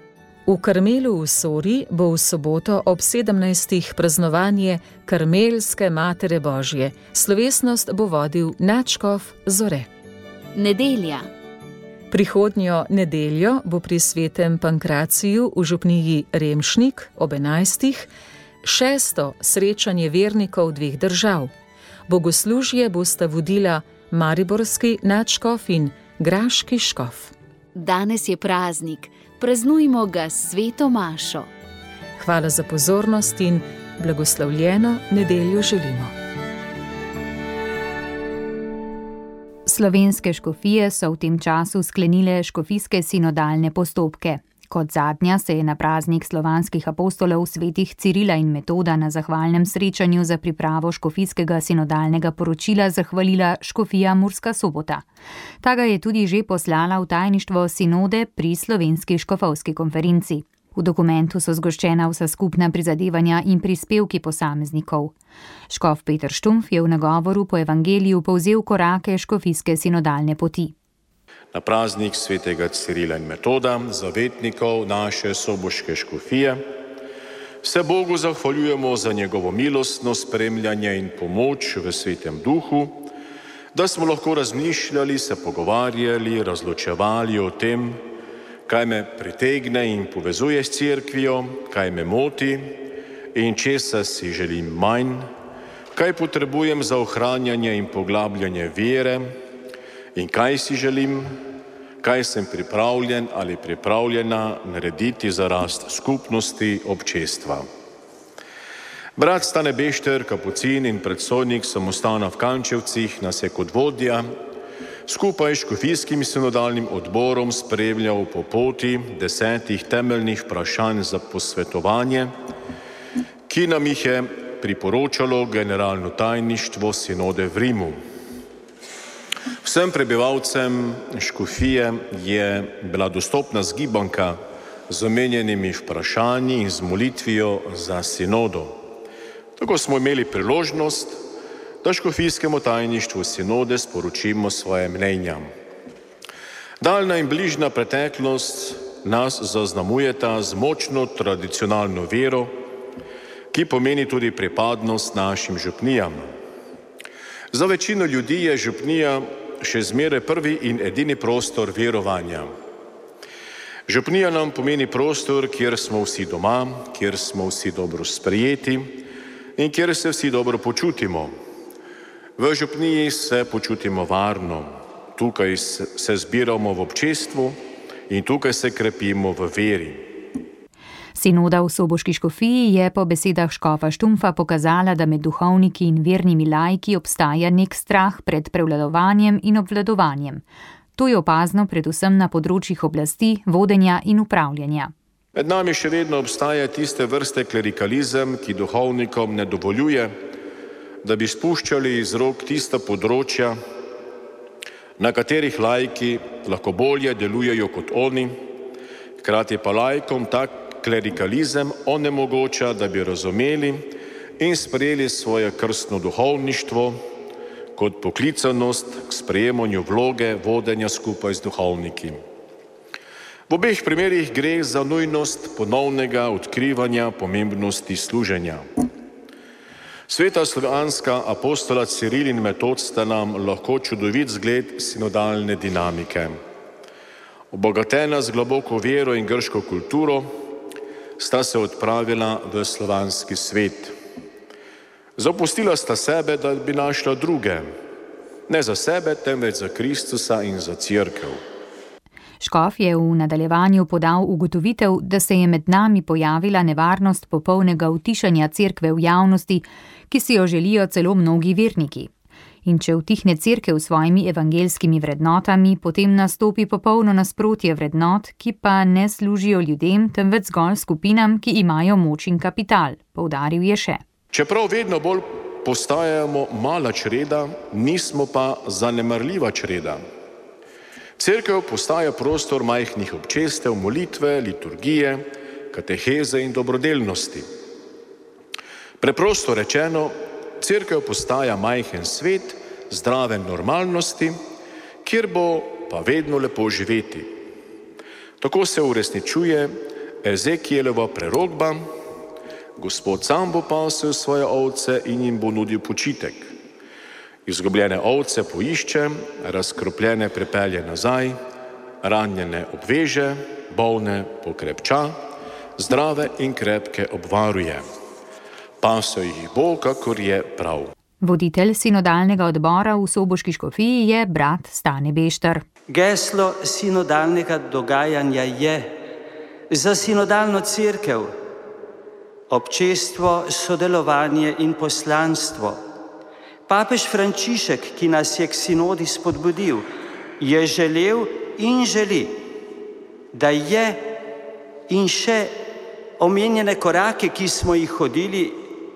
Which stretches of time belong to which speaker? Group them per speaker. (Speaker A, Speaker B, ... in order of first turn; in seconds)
Speaker A: 0.5-9.9, 12.1-18.1, 18.6-21.5, 22.1-27.3, 32.2-36.1
Speaker B: 10.5-11.3, 27.8-31.5
Speaker C: 39.7-55.0, 55.6-65.1, 65.7-70.8, 181.2-190.4, 191.0-194.9, 252.4-262.1, 262.6-274.0, 321.2-325.6
Speaker D: 71.5-76.6, 77.6-83.0, 83.7-88.0, 88.7-92.8, 93.3-95.3, 95.9-99.4, 100.2-101.4, 102.0-107.7, 109.2-114.3, 115.1-122.3, 123.5-128.0, 129.6-138.8, 139.6-141.2, 141.8-145.5, 146.8-152.5, 153.5-156.3, 157.5-162.5, 163.9-169.0, 169.6-171.3, 172.4-177.6, 178.1-180.1, 195.3-200.2, 201.0-203.6, 205.0-208.4, 209.2-217.0, 217.8-222.2, 223.5-228.7, 230.1-236.4, 237.5-240.3, 241.2-243.9, 245.2-247.7, 248.5-251.4, 274.3-280.0, 281.2-287.5, 289.0-294.4, 295.0-297.3, 298.4-301.9, 302.8-306.6, 307.4-311.4, 312.0-315.2, 315.8-317.9, 318.8-320.9
Speaker E: 325.9-328.9, 329.7-331.3, 332.5-335.8, 336.7-339.9, 340.4-342.4, 343.3-344.1, 344.9-345.6, 346.2-348.6